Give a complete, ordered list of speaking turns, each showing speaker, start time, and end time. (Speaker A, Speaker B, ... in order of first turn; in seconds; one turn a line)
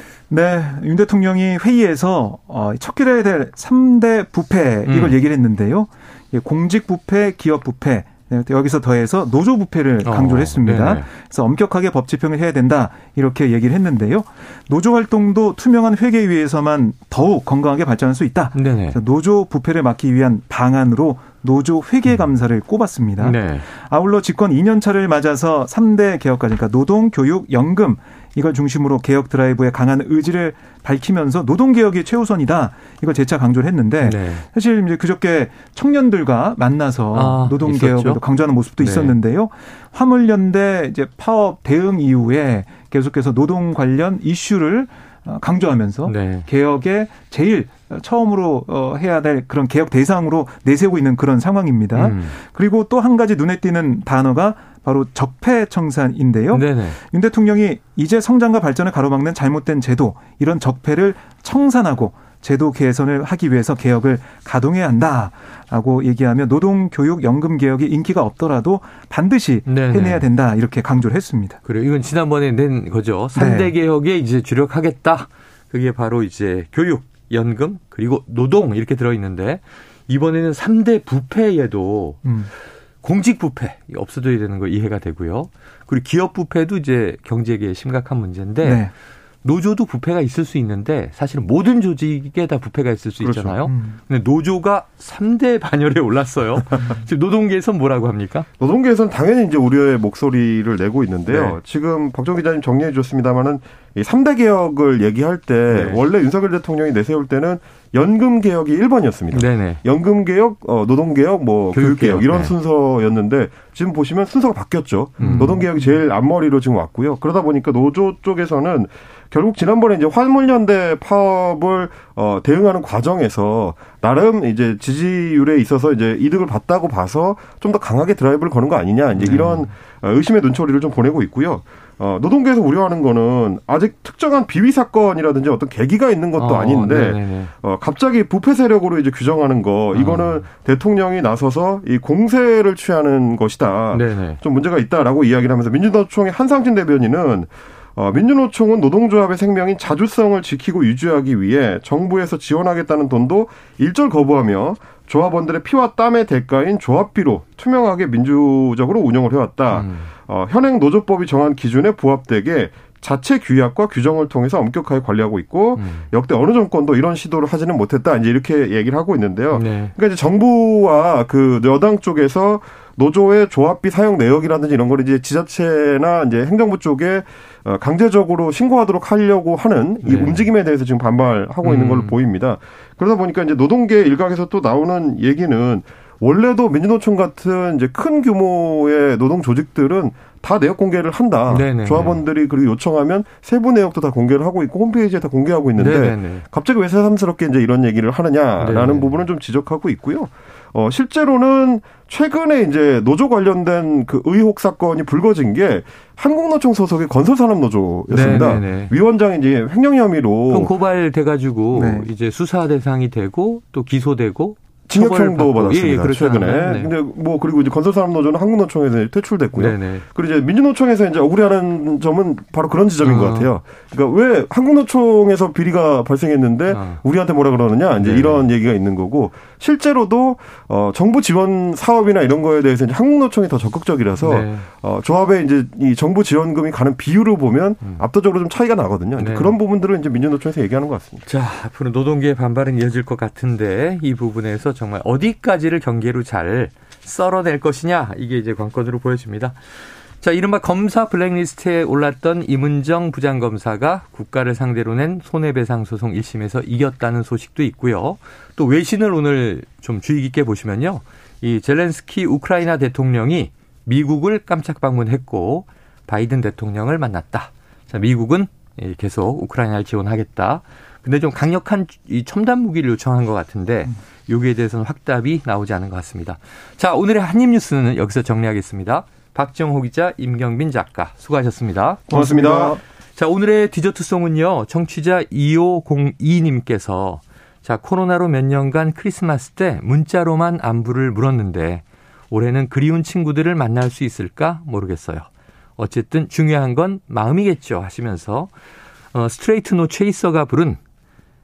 Speaker A: 0.3-71.6
Speaker B: 4.9-5.2
Speaker B: 10.0-11.1
Speaker B: 18.6-19.0
Speaker B: 23.2-23.6
Speaker B: 34.0-34.4
Speaker B: 37.1-38.2
Speaker B: 38.8-39.1
Speaker B: 46.0-46.5
Speaker B: 51.9-52.4
Speaker B: 56.5-57.0
Speaker B: 69.7-70.2
Speaker B: 71.6-82.2
Speaker A: 73.3-73.7
Speaker A: 82.2-82.5
Speaker B: 83.0-88.8
Speaker A: 88.6-88.9
Speaker B: 89.4-98.5
Speaker C: 93.2-93.5
Speaker A: 93.6-94.0
Speaker C: 98.6-210.7
Speaker B: 101.3-101.6
Speaker B: 105.7-106.0
Speaker B: 109.3-109.8
Speaker B: 111.7-112.5
Speaker A: 115.2-115.6
Speaker B: 115.2-115.6
Speaker B: 129.2-129.7
Speaker B: 136.4-137.5
Speaker B: 139.9-140.4
Speaker B: 143.9-144.4
Speaker B: 159.7-160.1
Speaker B: 165.8-166.1
Speaker B: 169.5-169.9
Speaker B: 180.0-180.4
Speaker B: 181.6-182.1
Speaker B: 191.5-192.2
Speaker B: 195.8-196.4
Speaker B: 198.6-199.1
Speaker B: 208.1-208.9
Speaker B: 210.5-216.9
Speaker A: 211.7-212.1
Speaker C: 214.9-241.2
Speaker B: 219.6-220.1
Speaker B: 223.0-223.5
Speaker B: 226.7-227.0
Speaker B: 228.0-228.4
Speaker B: 234.2-234.7
Speaker B: 239.2-239.6
Speaker B: 241.2-249.6
Speaker B: 250.2-282.1
Speaker C: 282.1-282.8
Speaker A: 282.1-282.8
Speaker B: 283.1-298.5
Speaker B: 299.1-300.8